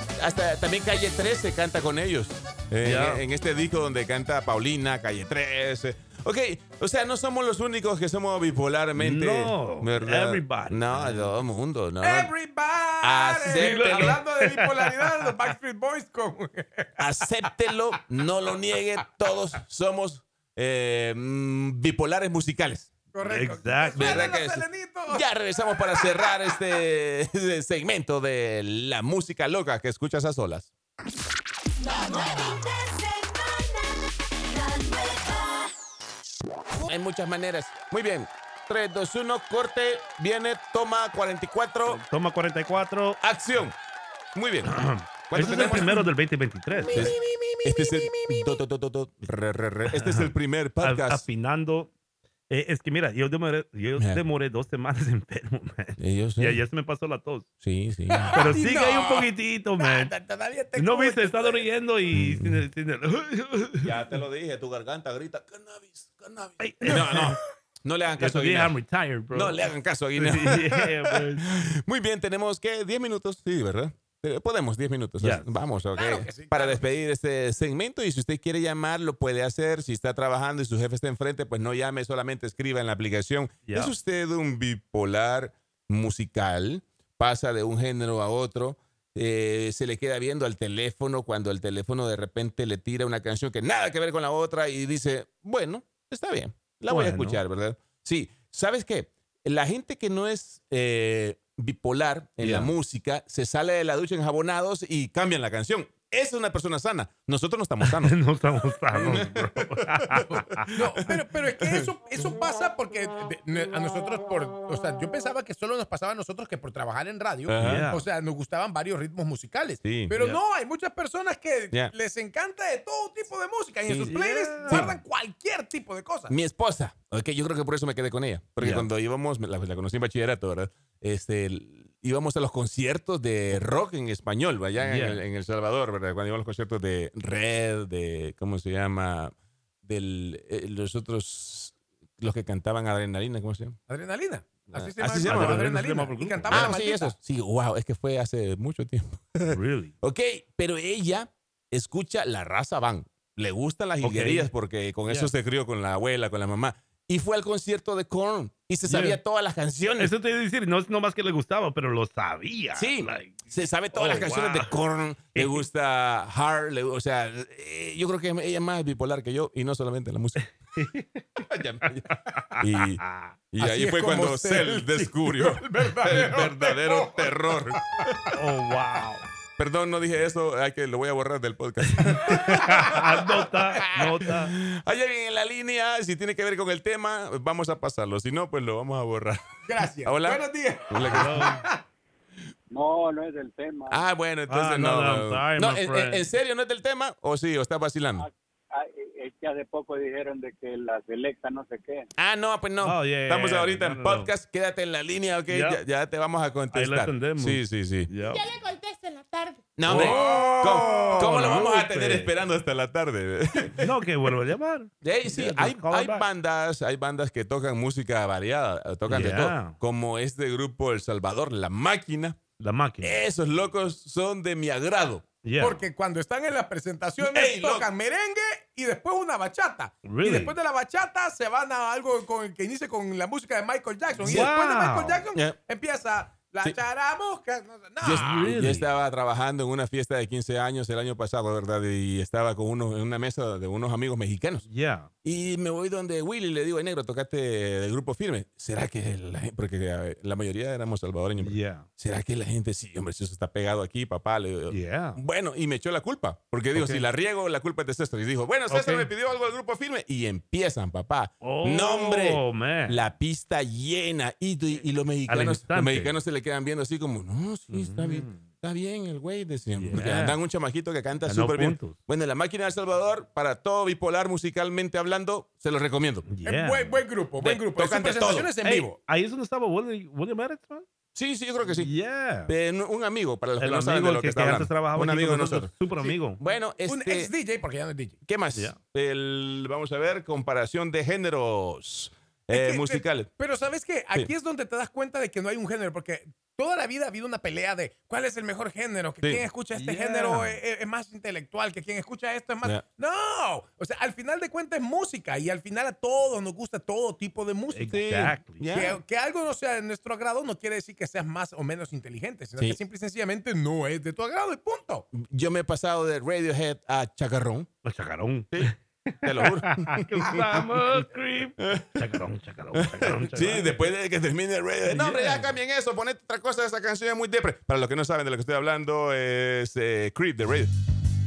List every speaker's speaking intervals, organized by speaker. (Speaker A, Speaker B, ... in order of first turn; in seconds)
Speaker A: 0.2-12.3, 13.0-14.2, 17.0-22.9, 23.9-30.7, 36.8-42.0, 43.2-43.7, 44.3-44.7, 45.3-46.1, 46.9-51.2, 54.0-54.2, 56.0-56.6, 57.6-58.5, 62.1-62.6, 63.8-68.7, 69.3-108.2, 108.9-111.9, 117.5-117.9, 119.8-120.2, 123.9-124.1, 124.7-125.0, 126.3-143.8, 144.7-145.6, 146.5-160.1, 162.7-170.4, 171.4-178.3, 179.6-183.1, 183.9-189.4, 190.0-191.5, 193.9-198.2, 202.2-208.1, 209.8-213.9, 215.0-222.4, 223.0-225.3, 227.2-227.9, 234.2-234.5, 238.0-244.7, 245.2-276.3, 277.4-278.5, 281.1-281.9, 282.5-287.3, 288.2-293.3, 307.9-309.0, 315.1-317.7, 318.5-320.7, 321.6-322.0, 322.7-330.7
Speaker B: 2.8-3.2, 8.9-11.4, 13.5-15.3, 23.2-24.2, 41.9-43.2, 44.6-47.1, 49.9-51.9, 52.5-57.5, 58.3-60.1, 60.7-64.0, 66.6-67.3, 68.2-69.6, 70.1-71.5, 75.2-75.5, 83.7-83.9, 96.9-97.4, 102.4-102.7, 107.8-110.7, 117.6-118.0, 124.1-124.9, 128.6-128.9, 134.8-135.2, 145.2-146.8, 149.5-149.9, 154.0-154.5, 158.9-159.2, 160.0-164.8, 165.3-165.6, 170.7-171.4, 172.3-173.3, 178.3-179.3, 182.3-184.5, 191.0-191.6, 194.5-196.2, 202.8-204.3, 205.5-205.8, 206.7-208.6, 209.8-212.3, 213.8-216.3, 219.1-219.8, 222.6-223.2, 225.4-225.8, 230.0-230.5, 234.2-235.2, 238.1-238.9, 244.7-245.1, 251.4-251.9, 254.7-255.2, 256.7-257.0, 258.7-259.1, 261.4-263.1, 265.3-266.1, 267.7-268.3, 269.8-270.4, 271.2-272.0, 276.3-277.0, 278.6-280.9, 281.6-282.5, 283.6-286.4, 299.7-300.6, 307.7-308.8, 317.8-323.9, 324.9-325.5
Speaker C: 12.0-17.5, 23.1-25.3, 58.1-61.6, 75.9-76.9, 110.7-126.3, 143.9-147.1, 173.6-178.1, 182.1-182.9, 189.7-191.8, 209.9-211.6, 225.6-238.5, 276.4-279.0, 286.9-288.2, 292.5-308.0, 308.7-315.1
Speaker D: 31.8-33.8, 34.5-35.7, 208.7-209.4
Speaker E: 192.7-194.0, 198.2-202.1